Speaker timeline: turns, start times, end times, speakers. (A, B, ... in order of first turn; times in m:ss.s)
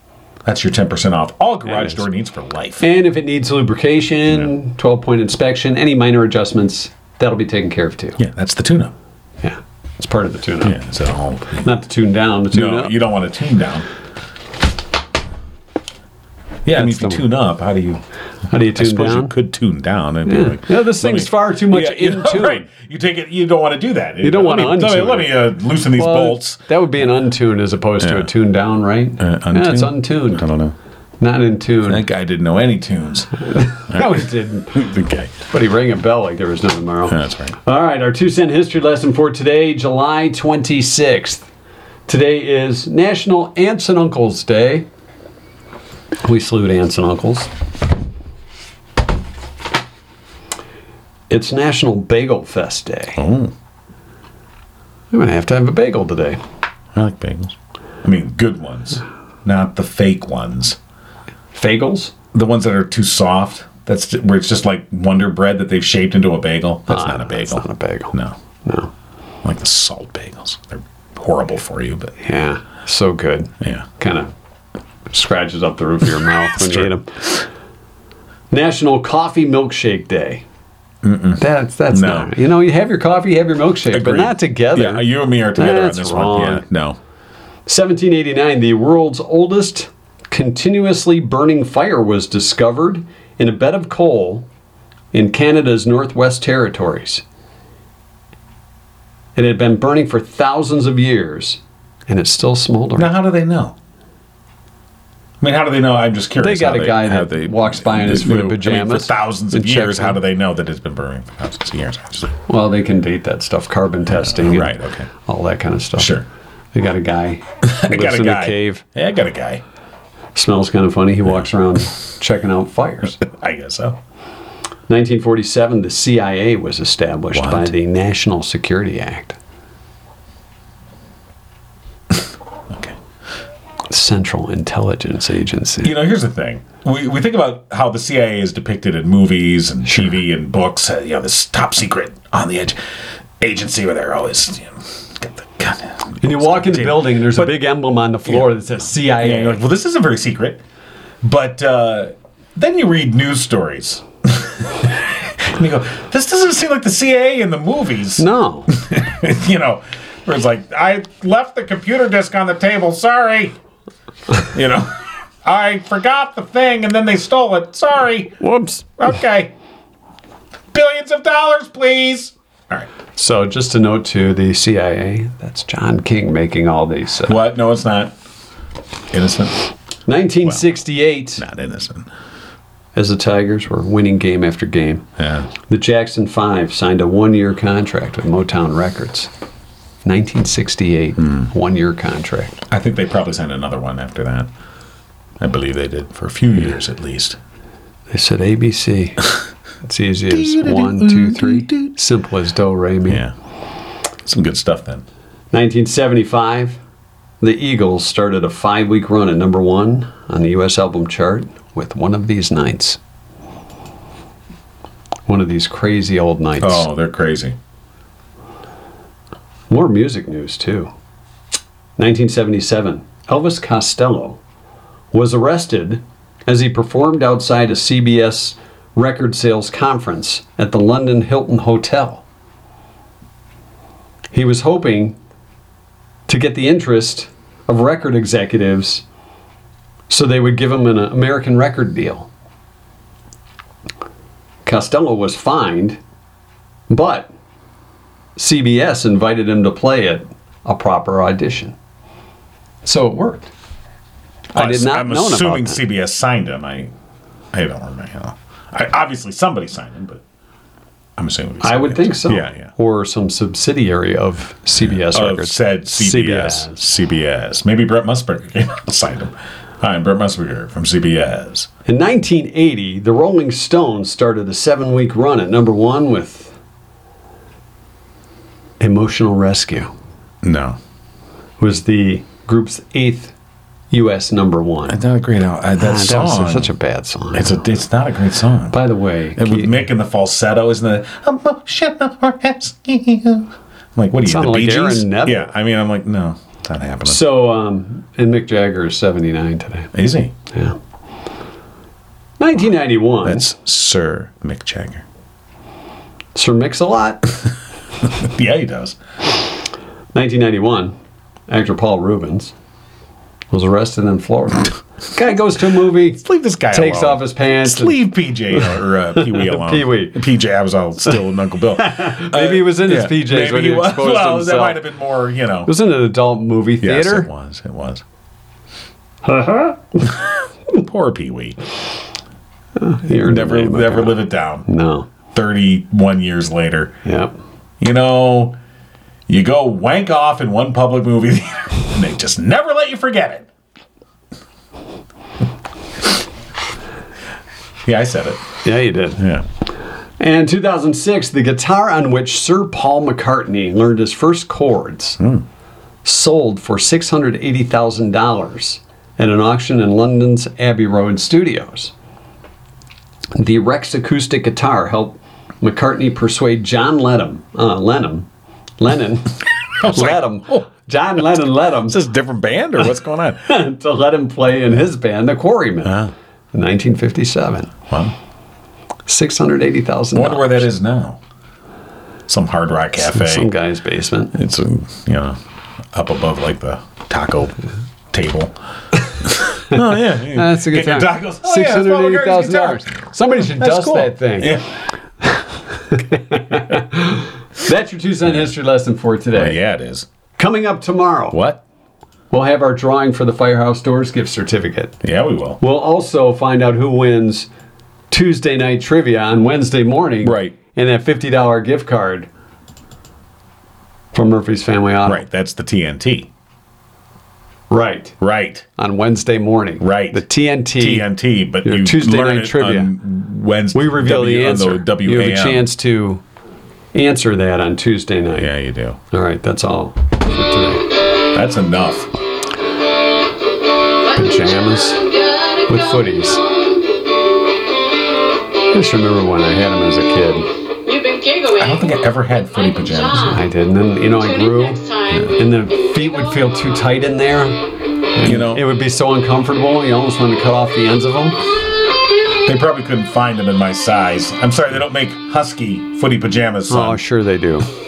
0:00.4-0:02.8 A
0:01.7-0:02.0 B
0:02.8-0:08.2 B
0:08.2-0:08.9 A
0:09.4-0:10.8 B
0:10.6-0:11.6 A
0:11.6-0:13.0 B
0:12.5-0:13.9 A
0:16.6-0:18.0 A
0:16.7-0:17.3 B
0:18.5-0:19.3 B
0:18.8-0:26.6 A
0:20.3-0:22.7 B
0:24.2-0:30.4 B
0:28.0-0:28.3 A
0:29.2-0:30.8 A
0:31.2-0:32.0 B
0:31.9-0:35.4 A
0:33.4-0:34.9 B
0:35.5-0:41.5 B
0:37.1-0:37.6 A
0:42.1-0:44.9 B
0:46.2-0:47.5 B
0:51.3-0:53.2 B
0:53.2-0:53.5 A
0:55.1-0:56.4 B
0:56.9-1:00.8 A
1:01.5-1:02.1 B
1:02.3-1:08.4 A
1:06.9-1:08.9 B
1:09.4-1:12.2 A
1:12.2-1:14.3 B
1:13.6-1:13.9 A
1:15.1-1:17.1 B
1:16.6-1:16.9 A
1:18.5-1:20.4 B
1:21.0-1:22.3 A
1:21.4-1:26.6 B
1:23.9-1:27.0 A
1:27.7-1:34.5 B
1:35.1-1:37.2 B
1:39.4-1:43.1 B
1:43.0-1:43.8 A
1:45.4-1:52.4 A
1:46.4-1:50.2 B
1:52.5-1:56.2 B
1:54.2-1:55.1 A
1:56.0-1:56.3 A
1:56.7-1:58.8 B
1:57.6-1:59.6 A
2:00.4-2:03.2 B
2:03.2-2:04.0 A
2:04.9-2:09.4 B
2:07.3-2:07.7 A
2:12.1-2:13.0 A
2:13.9-2:16.0 B
2:15.8-2:22.8 A
2:23.4-2:27.6 A
2:26.2-2:29.6 B
2:29.0-2:30.6 A
2:31.2-2:43.6 A
2:38.2-2:38.7 B
2:44.5-2:44.9 A
2:45.4-2:48.4 A
2:48.4-2:49.0 B
2:49.0-2:49.5 A
2:50.7-2:52.9 A
2:53.2-2:57.4 B
2:57.3-2:58.1 A
2:59.1-2:59.6 A
3:00.1-3:01.4 B
3:01.4-3:02.1 A
3:03.0-3:05.1 B
3:05.2-3:05.5 A
3:05.7-3:09.3 B
3:10.0-3:12.6 B
3:12.7-3:14.5 A
3:15.4-3:17.4 A
3:18.1-3:19.3 B
3:19.8-3:23.2 B
3:20.3-3:21.9 A
3:23.1-3:23.3 A
3:24.2-3:25.0 A
3:25.5-3:26.8 B
3:27.4-3:33.0 B
3:35.3-3:36.9 B
3:36.6-3:37.6 A
3:39.7-3:40.9 B
3:42.0-3:44.4 B
3:45.1-3:52.2 B
3:54.3-3:55.2 B
3:56.3-3:59.0 B
4:00.1-4:02.3 B
4:04.6-4:06.0 B
4:06.9-4:07.3 B
4:08.4-4:11.8 B
4:12.8-4:13.5 B
4:14.5-4:16.9 A
4:14.6-4:15.8 B
4:17.5-4:20.2 A
4:21.2-4:22.7 A
4:21.6-4:26.8 B
4:24.8-4:31.7 A
4:31.9-4:36.6 B
4:38.8-4:39.9 B
4:40.4-4:40.8 A
4:41.6-4:43.3 B
4:43.9-4:45.0 B
4:44.9-4:46.7 A
4:45.8-4:47.6 B
4:47.3-4:48.8 A
4:48.7-4:49.7 B
4:49.4-4:57.2 A
4:54.3-4:55.5 B
4:57.0-4:59.9 B
4:59.9-5:00.4 A
5:00.5-5:00.8 B
5:02.4-5:03.5 B
5:03.2-5:05.0 A
5:06.4-5:07.3 B
5:08.0-5:09.0 A
5:10.1-5:11.0 B
5:11.5-5:12.5 B
5:13.5-5:18.0 B
5:16.2-5:25.7 A
5:19.2-5:20.2 B
5:21.8-5:24.8 B
5:25.7-5:27.3 B
5:26.8-5:28.0 A
5:29.2-5:30.0 B
5:30.1-5:31.6 A
5:32.8-5:35.1 B
5:33.2-5:34.7 A
5:35.3-5:37.0 A
5:37.0-5:37.4 B
5:37.8-5:38.6 A
5:39.3-5:43.5 A
5:47.9-5:48.5 A
5:48.6-5:49.3 B
5:49.2-5:49.5 A
5:50.2-5:55.2 B
5:55.2-5:55.4 A
5:56.0-6:01.9 B
6:03.4-6:08.3 B
6:08.8-6:12.0 B
6:09.8-6:10.7 A
6:11.8-6:13.5 A
6:13.5-6:16.0 B
6:15.8-6:16.1 A
6:16.5-6:17.7 B
6:19.1-6:20.7 B
6:20.2-6:21.2 A
6:22.3-6:23.5 A
6:23.1-6:24.4 B
6:24.3-6:25.4 A
6:25.9-6:27.6 A
6:28.1-6:28.5 A
6:29.2-6:34.7 A
6:29.7-6:34.6 B
6:35.9-6:39.6 B
6:39.3-6:40.1 A
6:40.4-6:41.4 B
6:41.3-6:41.6 A
6:42.3-6:45.0 B
6:45.0-6:45.6 A
6:45.6-6:47.5 B
6:48.1-6:52.3 B
6:50.2-6:50.6 A
6:54.1-6:55.2 B
6:55.0-6:56.3 A
6:57.7-6:58.2 B
6:58.2-6:58.7 A
6:58.8-7:01.1 B
6:59.8-7:05.7 A
7:01.6-7:03.0 B
7:03.7-7:06.2 B
7:06.9-7:08.5 B
7:08.4-7:09.0 A
7:09.1-7:10.9 B
7:11.3-7:12.1 A
7:14.0-7:16.9 C
7:14.1-7:15.0 B
7:15.7-7:16.4 B
7:18.7-7:20.5 B
7:20.8-7:23.4 C
7:21.6-7:23.4 A
7:23.2-7:27.6 B
7:24.2-7:25.4 C
7:25.1-7:25.4 A
7:26.0-7:26.4 C
7:28.1-7:31.4 B
7:28.2-7:28.6 A
7:32.5-7:37.0 A
7:36.7-7:37.7 B